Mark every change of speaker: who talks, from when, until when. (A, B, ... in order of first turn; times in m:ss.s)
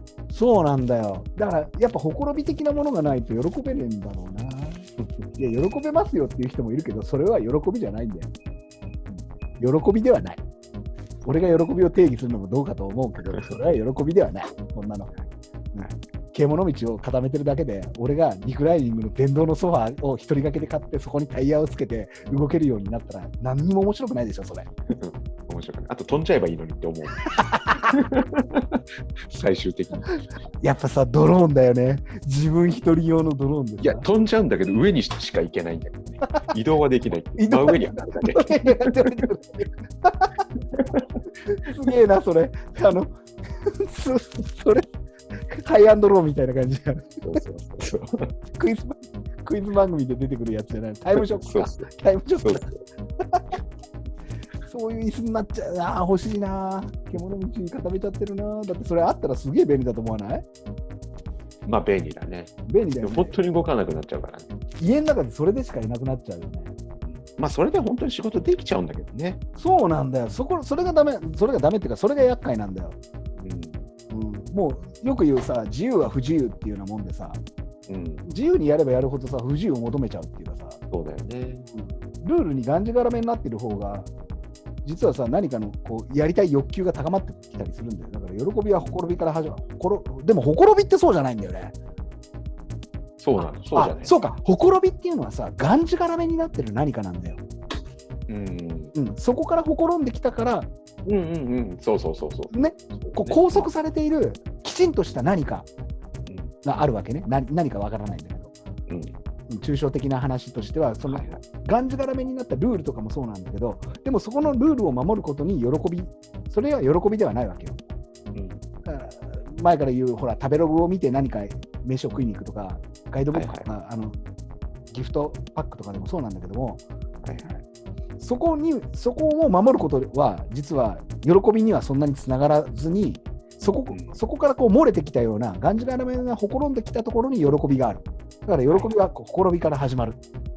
0:00.3-0:08.3 A
0:09.1-0:10.4 A
0:11.2-0:15.1 A
0:15.7-0:24.7 A
0:24.9-0:27.2 B
0:27.5-0:27.8 A
0:27.9-0:28.8 B
0:29.3-0:30.1 B
0:30.6-0:34.0 A
0:33.8-0:39.2 B
0:37.4-0:40.4 A
0:40.7-0:41.1 B
0:41.4-0:43.1 A
0:43.6-0:44.9 A
0:45.5-0:47.4 A
0:47.2-0:48.1 B
0:48.6-0:52.6 A
0:51.2-0:51.9 B
0:52.4-0:52.7 B
0:54.6-1:00.4 A
1:01.6-1:04.5 B
1:02.6-1:03.4 A
1:04.8-1:06.7 A
1:07.0-1:09.4 B
1:09.6-1:13.0 A
1:13.4-1:13.8 B
1:14.1-1:17.4 A
1:17.9-1:18.2 B
1:18.2-1:20.8 A
1:20.9-1:21.7 B
1:22.2-1:24.1 A
1:24.8-1:31.7 A
1:33.2-1:34.1 B
1:33.7-1:37.4 A
1:38.3-1:38.9 B
1:38.9-1:40.7 A
1:41.0-1:43.7 B
1:42.5-1:45.7 A
1:46.3-1:46.6 B
1:46.6-1:48.5 A
1:48.9-1:49.1 B
1:49.5-1:57.8 A
1:51.1-1:51.4 B
1:58.3-1:58.6 B
1:58.8-2:04.2 A
2:03.3-2:03.7 B
2:04.9-2:06.8 A
2:07.2-2:07.6 B
2:08.2-2:20.2 A
2:13.9-2:14.2 B
2:18.7-2:18.9 B